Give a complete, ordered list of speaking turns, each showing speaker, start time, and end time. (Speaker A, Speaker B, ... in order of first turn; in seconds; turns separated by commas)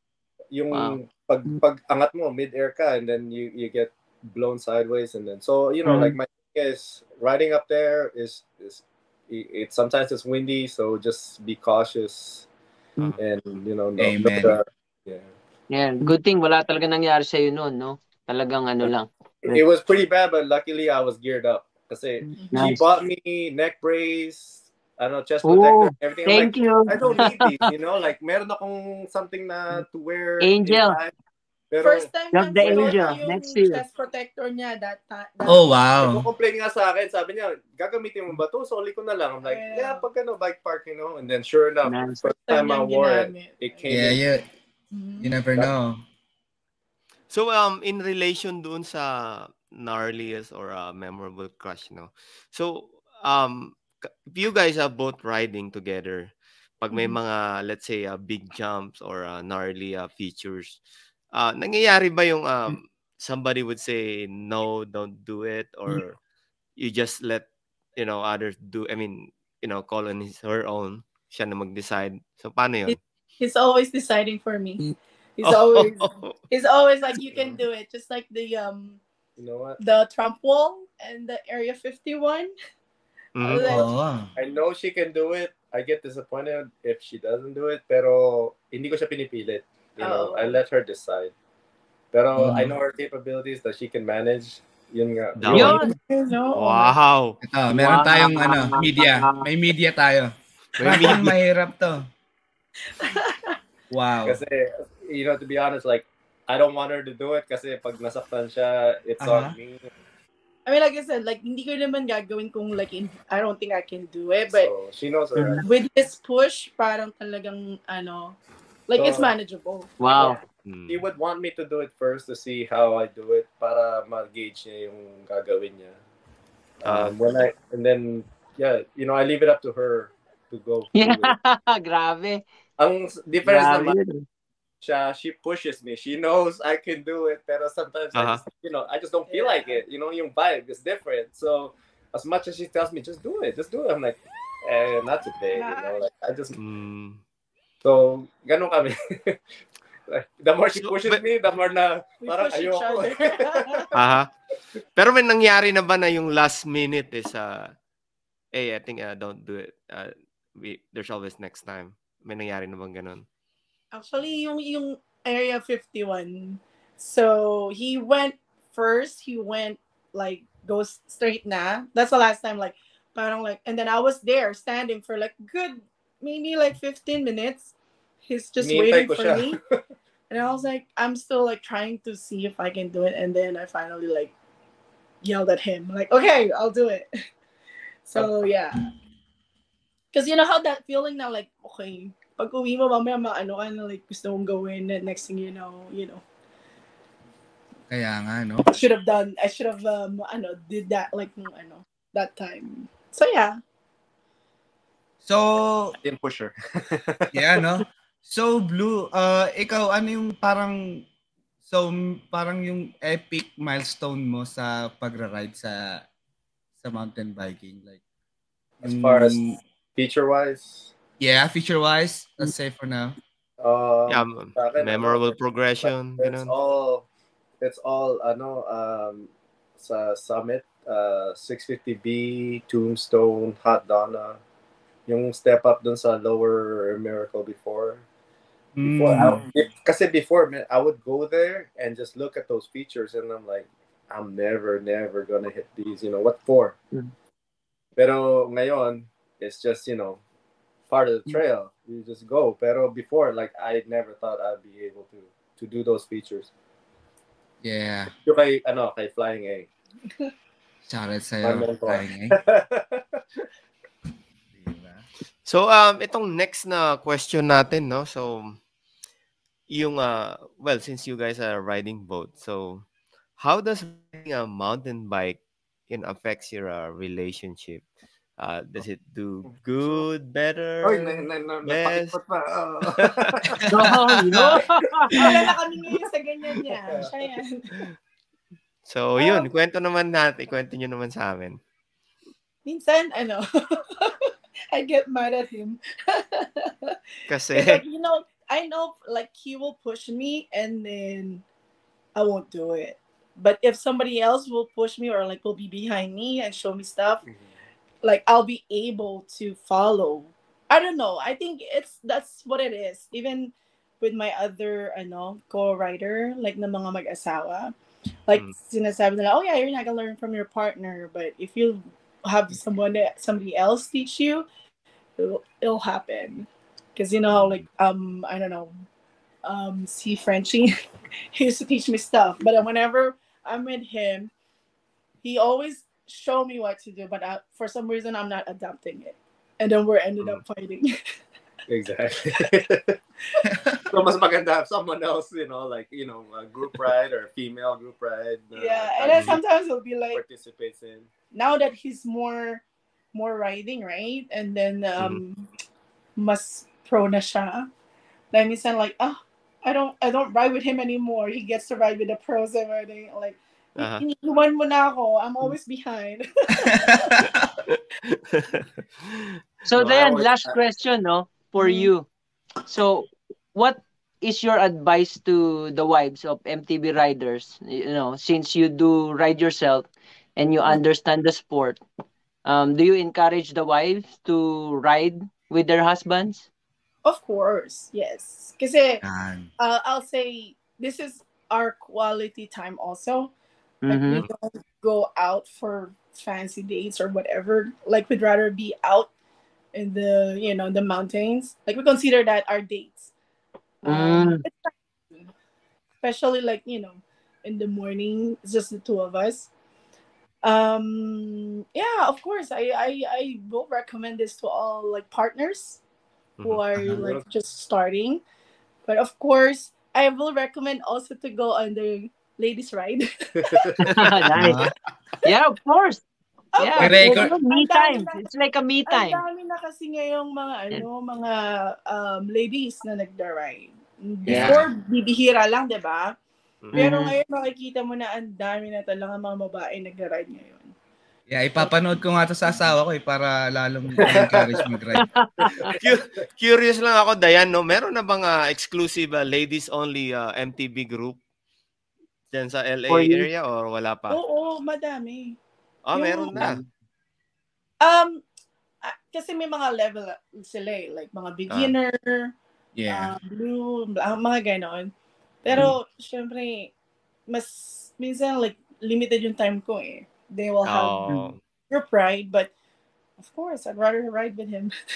Speaker A: 0.5-12.5, Speaker B: 0.7-1.0, Speaker B: 5.8-6.2, Speaker A: 13.2-15.3, Speaker C: 14.0-14.6, Speaker B: 15.7-19.6, Speaker A: 19.5-31.1, Speaker D: 22.4-22.8, Speaker B: 22.5-22.8, Speaker B: 25.4-27.5, Speaker B: 30.4-31.0, Speaker A: 31.7-32.1, Speaker D: 31.8-35.7, Speaker B: 32.3-33.8, Speaker A: 32.6-33.2, Speaker C: 35.5-36.3, Speaker A: 36.0-44.2, Speaker D: 39.4-40.1, Speaker B: 41.9-42.3, Speaker D: 42.5-44.0, Speaker C: 43.9-44.4, Speaker D: 44.9-45.4, Speaker C: 45.2-46.0, Speaker E: 47.3-56.3, Speaker E: 56.8-60.8, Speaker E: 61.4-66.2, Speaker E: 66.8-73.0, Speaker D: 72.9-79.0, Speaker E: 75.4-76.4, Speaker A: 77.3-77.6, Speaker A: 79.4-79.8, Speaker D: 79.8-82.5, Speaker E: 83.4-83.6, Speaker D: 83.4-83.9, Speaker A: 83.5-91.3, Speaker C: 83.6-84.3, Speaker D: 90.0-90.6, Speaker A: 92.1-95.8, Speaker C: 92.4-92.7, Speaker E: 95.4-95.8, Speaker B: 95.5-95.9, Speaker D: 95.6-96.9, Speaker E: 96.5-97.4, Speaker C: 97.4-102.0, Speaker B: 97.7-99.5, Speaker E: 100.8-101.3, Speaker D: 103.0-103.6, Speaker C: 103.9-104.4, Speaker A: 104.3-109.9, Speaker C: 109.2-109.5, Speaker D: 110.7-114.7, Speaker A: 114.5-115.7, Speaker B: 115.4-115.7, Speaker D: 115.6-118.4, Speaker D: 118.9-120.4, Speaker A: 119.0-119.3, Speaker B: 120.0-120.4, Speaker E: 120.7-121.1, Speaker A: 120.9-126.0, Speaker E: 126.8-127.5, Speaker A: 126.8-131.3, Speaker B: 130.9-132.4, Speaker A: 132.8-134.0, Speaker B: 133.4-134.3, Speaker A: 134.8-146.6, Speaker E: 138.2-138.4, Speaker D: 139.3-139.8, Speaker D: 145.6-146.0, Speaker E: 146.6-147.2, Speaker A: 147.8-149.4, Speaker A: 150.1-153.8, Speaker E: 150.8-151.2, Speaker D: 152.2-153.9, Speaker E: 153.9-154.3, Speaker E: 155.0-157.7, Speaker E: 158.5-163.3, Speaker D: 163.9-177.7, Speaker D: 178.3-179.6, Speaker A: 178.6-179.7, Speaker D: 180.3-184.3, Speaker D: 185.2-187.1, Speaker D: 188.1-188.8, Speaker A: 188.2-188.4, Speaker D: 190.1-196.2, Speaker C: 197.9-198.7, Speaker D: 198.7-203.6, Speaker C: 205.2-206.0, Speaker A: 206.0-207.7, Speaker C: 207.3-211.1, Speaker C: 211.7-216.0, Speaker C: 216.8-218.0, Speaker A: 218.8-219.4, Speaker C: 218.8-219.6, Speaker A: 220.0-220.9, Speaker C: 221.2-223.2, Speaker A: 223.6-227.1, Speaker E: 224.1-226.5, Speaker A: 227.6-234.4, Speaker A: 235.1-238.0, Speaker C: 238.8-239.4, Speaker A: 238.9-246.8, Speaker A: 248.0-250.2, Speaker A: 250.9-256.5, Speaker C: 257.6-258.1, Speaker A: 258.3-259.7, Speaker C: 260.9-262.4, Speaker A: 261.4-263.2, Speaker C: 264.6-265.0, Speaker E: 265.5-268.6, Speaker E: 269.7-272.9, Speaker E: 273.4-277.8, Speaker E: 278.4-282.1, Speaker A: 280.8-283.6, Speaker E: 282.9-283.6, Speaker C: 283.6-284.6, Speaker B: 283.7-285.1, Speaker D: 285.1-287.7, Speaker E: 288.9-291.6, Speaker D: 289.2-289.5, Speaker D: 292.6-297.0, Speaker E: 297.3-297.8, Speaker D: 297.5-301.4, Speaker D: 302.1-307.2, Speaker D: 308.0-317.8, Speaker D: 318.3-324.5, Speaker D: 325.2-328.8, Speaker E: 327.3-327.6, Speaker D: 329.4-330.7, Speaker D: 331.3-334.3, Speaker D: 335.2-340.9, Speaker A: 341.7-343.0, Speaker C: 343.4-343.8, Speaker A: 343.9-349.4, Speaker D: 348.5-350.2, Speaker E: 349.1-349.4, Speaker A: 350.1-351.1, Speaker D: 351.3-355.5, Speaker D: 356.2-357.7, Speaker D: 358.3-367.1, Speaker E: 363.8-364.1, Speaker C: 366.7-367.5, Speaker E: 367.7-369.3, Speaker B: 369.7-372.1, Speaker A: 369.8-370.5, Speaker D: 371.6-371.9, Speaker B: 372.7-381.8, Speaker B: 382.4-386.4, Speaker D: 387.1-389.0, Speaker C: 389.0-389.5, Speaker D: 389.6-393.3, Speaker B: 393.8-394.2, Speaker D: 393.9-399.1, Speaker D: 399.7-403.1, Speaker D: 403.8-405.3, Speaker B: 403.9-404.4, Speaker D: 406.0-409.5, Speaker D: 410.4-415.8, Speaker D: 416.4-418.2, Speaker C: 416.8-417.0, Speaker A: 417.0-417.2, Speaker D: 418.9-423.7, Speaker A: 423.4-424.1, Speaker B: 423.8-424.6, Speaker C: 424.4-424.7, Speaker B: 425.2-426.0, Speaker D: 426.6-428.3, Speaker B: 426.6-429.2, Speaker C: 426.8-427.3, Speaker D: 428.9-436.2, Speaker C: 434.3-434.6, Speaker E: 434.3-434.6, Speaker E: 436.6-436.9, Speaker B: 436.7-437.2, Speaker D: 436.8-440.7, Speaker C: 441.3-445.1, Speaker A: 444.0-444.7, Speaker B: 445.0-445.7, Speaker A: 445.6-446.0, Speaker E: 445.8-451.2, Speaker E: 452.3-454.2, Speaker B: 452.9-453.3, Speaker D: 454.1-455.4, Speaker E: 455.9-456.6, Speaker D: 455.9-456.4, Speaker B: 456.4-456.6, Speaker D: 457.8-458.2, Speaker D: 458.8-462.4, Speaker E: 461.5-461.8, Speaker C: 462.8-463.1, Speaker D: 462.9-466.7, Speaker D: 467.3-471.0, Speaker E: 470.6-471.4, Speaker D: 471.7-472.5, Speaker D: 473.2-474.7